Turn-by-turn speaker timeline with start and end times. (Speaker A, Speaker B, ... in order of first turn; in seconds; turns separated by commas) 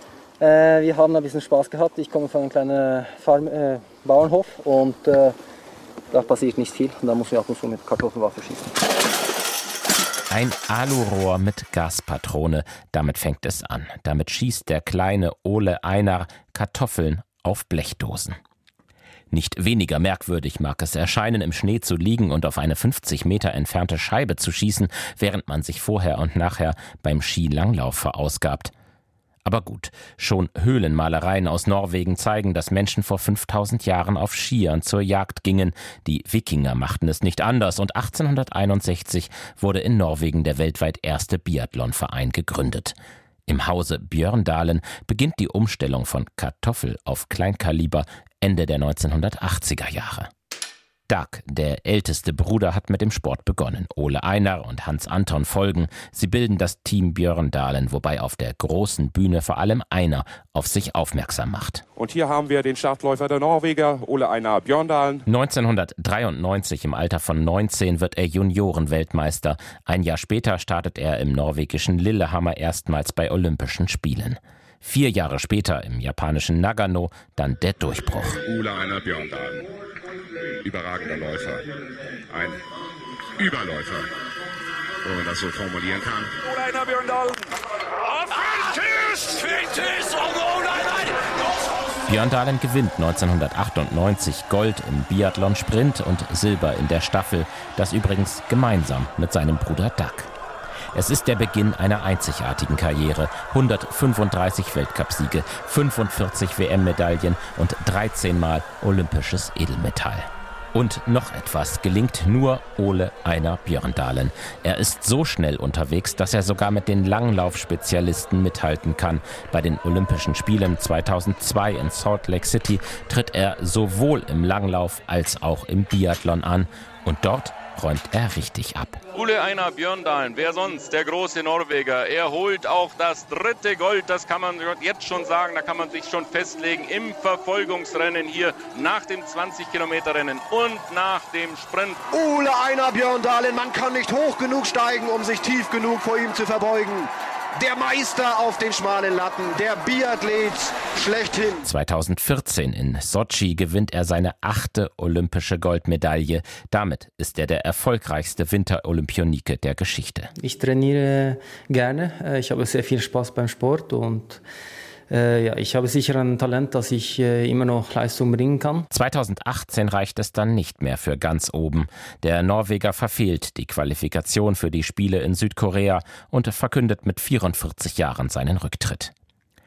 Speaker A: 0.4-5.3, Speaker A: 6.1-8.7, Speaker B: 10.3-18.4, Speaker B: 19.3-28.7, Speaker B: 29.4-42.9, Speaker B: 43.5-50.3, Speaker B: 51.1-61.8, Speaker C: 62.0-65.2, Speaker B: 65.2-78.4, Speaker C: 78.4-79.7, Speaker C: 80.6-81.7, Speaker C: 82.3-82.6, Speaker C: 83.4-84.1, Speaker C: 85.0-87.4, Speaker C: 88.3-91.0, Speaker B: 92.1-100.3, Speaker B: 100.9-129.0, Speaker D: 129.1-142.0, Speaker E: 142.1-151.7, Speaker B: 151.6-160.3, Speaker A: 160.4-164.4, Speaker A: 165.1-168.9, Speaker B: 168.9-179.1